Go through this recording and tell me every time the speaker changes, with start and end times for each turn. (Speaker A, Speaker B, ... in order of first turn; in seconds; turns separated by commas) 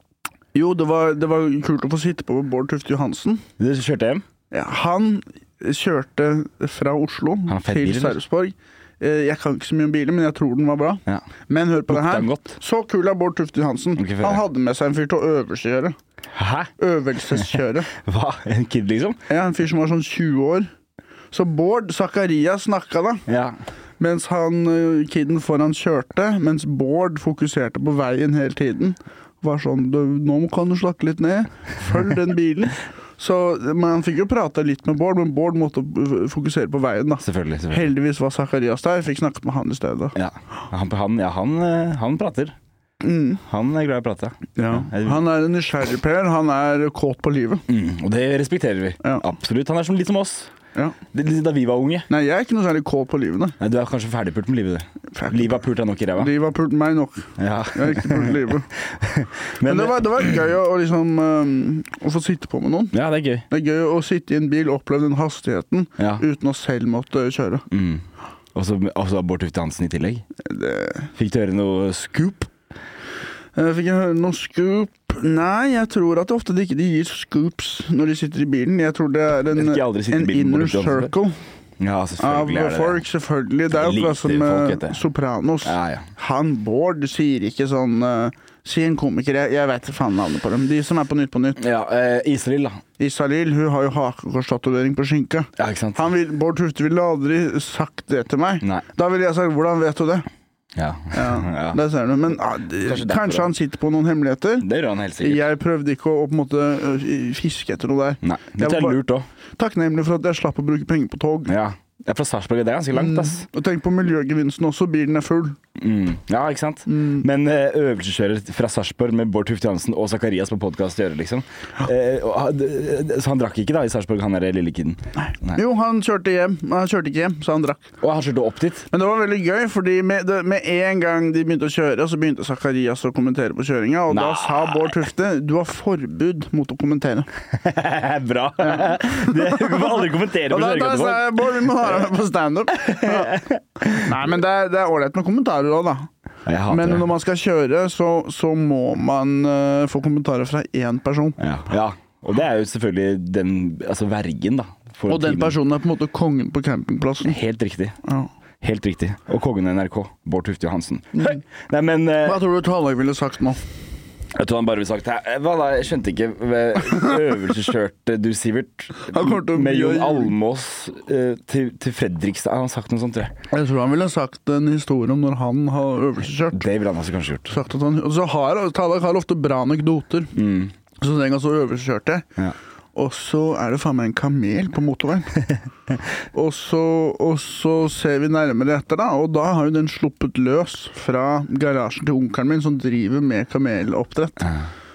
Speaker A: 0.5-3.4, Speaker B: 3.6-4.2, Speaker A: 4.5-15.9, Speaker B: 7.5-8.2, Speaker B: 11.9-12.6, Speaker B: 14.0-14.4, Speaker B: 16.3-16.7, Speaker A: 16.8-17.9, Speaker B: 17.3-19.2, Speaker A: 19.3-20.7, Speaker A: 21.3-23.2, Speaker B: 23.3-23.5, Speaker A: 24.0-40.1, Speaker B: 37.2-37.9, Speaker B: 40.1-42.5, Speaker A: 43.0-43.4, Speaker B: 43.4-45.2, Speaker A: 44.5-47.6, Speaker B: 47.7-50.5, Speaker A: 49.0-49.3, Speaker B: 51.1-52.1, Speaker A: 52.1-53.5, Speaker B: 53.6-56.3, Speaker A: 55.1-55.5, Speaker A: 56.2-58.7, Speaker B: 57.4-60.3, Speaker A: 59.6-63.0, Speaker B: 62.9-63.4, Speaker A: 63.5-67.6, Speaker B: 66.0-66.2, Speaker B: 67.7-68.0, Speaker B: 68.5-70.2, Speaker A: 70.4-71.1, Speaker B: 71.1-72.5, Speaker A: 73.5-81.4, Speaker B: 79.5-81.1, Speaker B: 81.8-83.0, Speaker A: 82.2-91.6, Speaker B: 83.7-85.0, Speaker B: 85.6-86.1, Speaker B: 91.6-92.8, Speaker A: 93.0-100.2, Speaker B: 95.6-96.0, Speaker B: 100.8-101.8, Speaker A: 101.1-104.7, Speaker B: 102.8-103.5, Speaker B: 104.6-105.4, Speaker A: 105.2-109.0, Speaker B: 108.2-109.2, Speaker A: 109.6-111.5, Speaker B: 111.5-113.5, Speaker A: 112.9-115.6, Speaker B: 115.8-125.6, Speaker A: 116.9-117.2, Speaker A: 125.3-127.9, Speaker B: 128.0-128.9, Speaker A: 128.9-137.3, Speaker B: 134.1-135.0, Speaker B: 137.5-141.8, Speaker A: 138.6-146.1, Speaker B: 142.7-144.3, Speaker B: 146.4-147.1, Speaker A: 146.7-151.4, Speaker B: 151.4-155.6, Speaker A: 155.1-157.3, Speaker B: 157.2-158.0, Speaker B: 158.6-162.4, Speaker A: 162.2-163.6, Speaker B: 164.3-173.3, Speaker A: 169.1-170.3, Speaker A: 173.5-176.6, Speaker B: 176.5-177.6, Speaker A: 177.5-180.3, Speaker B: 180.3-180.7, Speaker A: 181.0-182.2, Speaker A: 182.9-185.4, Speaker A: 186.3-194.5, Speaker B: 194.4-194.7